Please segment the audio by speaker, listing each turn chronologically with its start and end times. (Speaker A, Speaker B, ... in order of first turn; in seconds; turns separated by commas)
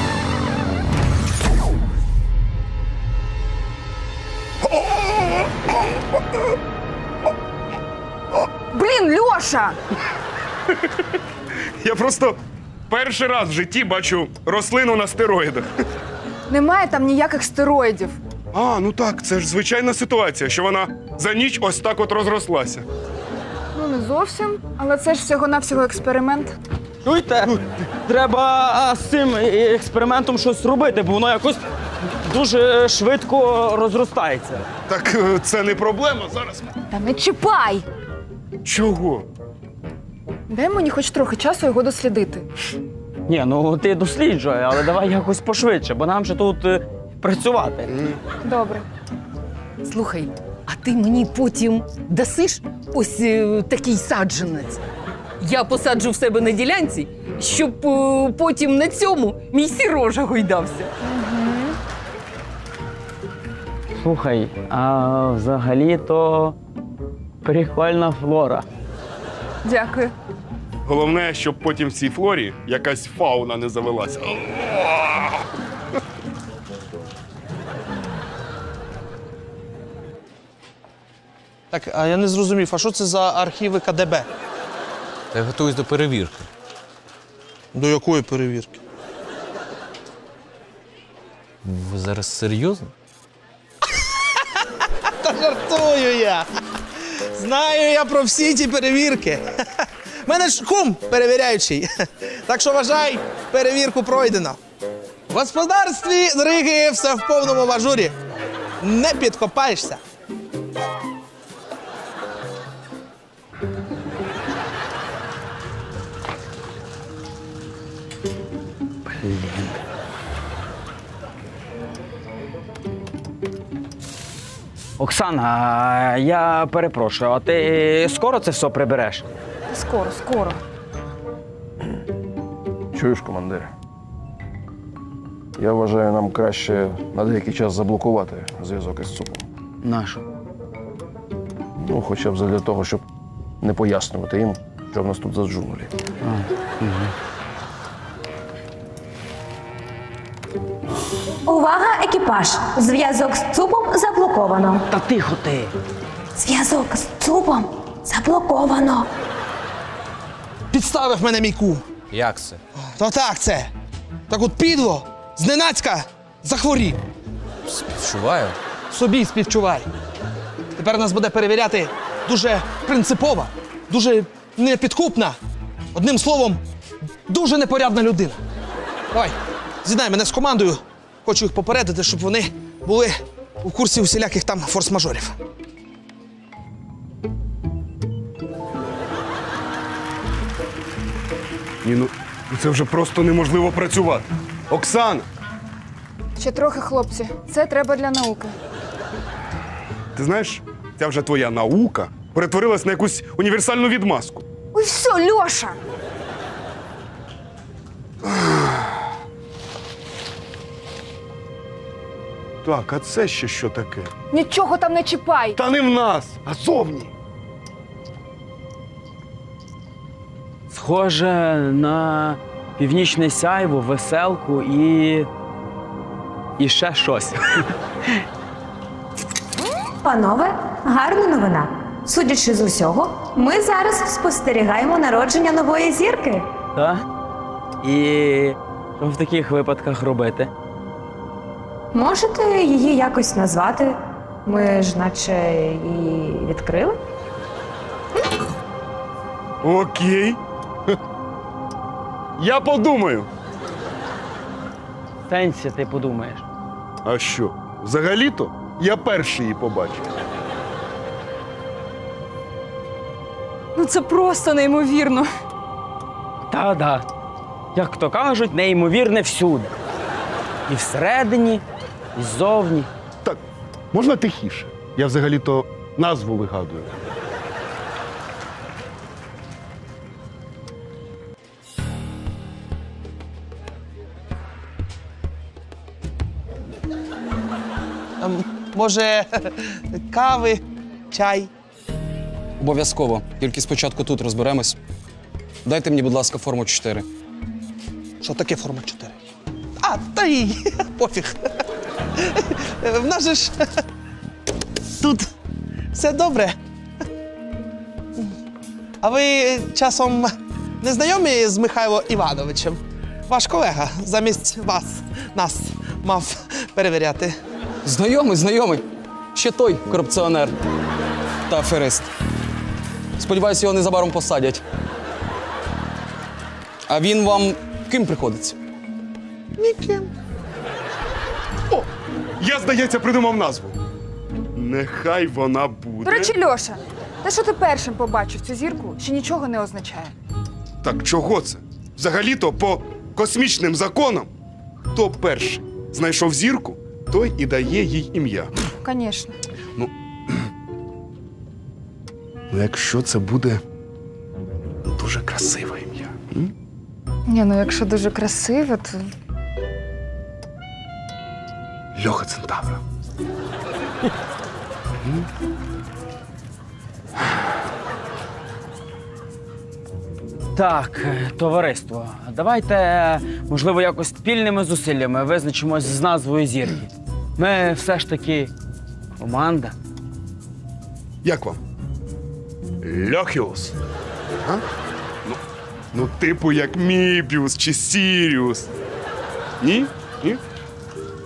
Speaker A: 4.6-6.0, Speaker B: 8.7-9.8, Speaker A: 11.8-15.7, Speaker B: 16.5-18.2, Speaker A: 18.5-22.9, Speaker B: 23.7-26.5, Speaker C: 27.0-31.6, Speaker C: 32.2-34.6, Speaker A: 34.9-36.8, Speaker B: 36.9-37.8, Speaker A: 38.6-39.2, Speaker B: 40.5-42.4, Speaker C: 43.3-47.9, Speaker A: 47.9-48.2, Speaker B: 48.4-48.8, Speaker D: 49.8-54.8, Speaker D: 55.4-60.9, Speaker B: 61.0-61.8, Speaker C: 64.0-66.6, Speaker C: 67.4-68.7, Speaker B: 69.6-70.1, Speaker A: 70.8-75.4, Speaker E: 81.7-84.3, Speaker F: 85.3-86.5, Speaker E: 87.7-88.8, Speaker F: 91.6-92.9, Speaker E: 95.2-96.5, Speaker E: 97.3-104.6, Speaker E: 105.3-108.2, Speaker E: 108.8-110.0, Speaker C: 119.0-119.8, Speaker C: 125.0-129.3, Speaker B: 129.7-130.6, Speaker G: 132.9-133.7, Speaker G: 135.6-139.4, Speaker C: 139.8-140.2, Speaker G: 141.8-143.0, Speaker G: 143.6-145.9, Speaker C: 146.2-147.1, Speaker H: 151.4-154.8, Speaker C: 154.9-155.7, Speaker H: 156.3-159.1, Speaker E: 160.7-161.8, Speaker F: 162.1-162.6, Speaker E: 162.9-163.7, Speaker E: 164.3-167.0, Speaker F: 167.7-168.6, Speaker E: 168.9-169.9, Speaker E: 170.8-175.4, Speaker E: 175.9-176.6, Speaker E: 177.3-178.4, Speaker E: 179.1-185.4, Speaker A: 191.8-195.3, Speaker B: 196.4-198.5, Speaker A: 200.1-204.5, Speaker B: 204.7-205.8, Speaker A: 208.2-209.0, Speaker A: 212.6-214.1, Speaker B: 214.3-215.6, Speaker A: 215.5-217.1, Speaker C: 220.7-225.3, Speaker C: 226.6-228.2, Speaker H: 230.0-236.5, Speaker C: 236.7-237.0, Speaker C: 237.8-240.5, Speaker H: 241.9-247.0, Speaker A: 249.6-250.4, Speaker A: 252.4-253.3, Speaker C: 255.3-256.4, Speaker A: 257.0-260.1, Speaker B: 263.8-265.3, Speaker C: 266.5-267.0, Speaker C: 267.7-269.7, Speaker C: 270.7-271.6, Speaker C: 272.1-272.9, Speaker A: 273.9-276.9, Speaker E: 288.2-291.5, Speaker I: 292.6-294.8, Speaker I: 295.6-297.1, Speaker E: 298.2-299.2, Speaker E: 299.8-301.4, Speaker E: 302.1-303.8, Speaker E: 304.9-305.3, Speaker E: 305.9-306.6, Speaker E: 309.0-317.4, Speaker I: 317.8-320.6, Speaker I: 321.5-322.1, Speaker I: 323.2-324.6, Speaker I: 326.9-328.6, Speaker E: 329.6-330.1, Speaker A: 332.4-333.8, Speaker A: 334.5-336.3, Speaker B: 336.0-340.1, Speaker A: 340.8-344.3, Speaker A: 344.9-348.5, Speaker B: 348.8-349.4, Speaker A: 349.8-350.4, Speaker A: 352.5-353.6, Speaker A: 354.8-356.5, Speaker B: 357.3-359.1, Speaker A: 361.9-362.8, Speaker C: 370.5-378.5, Speaker C: 379.2-379.7, Speaker A: 381.2-381.6, Speaker A: 382.8-383.7, Speaker A: 385.9-388.7, Speaker A: 389.6-390.4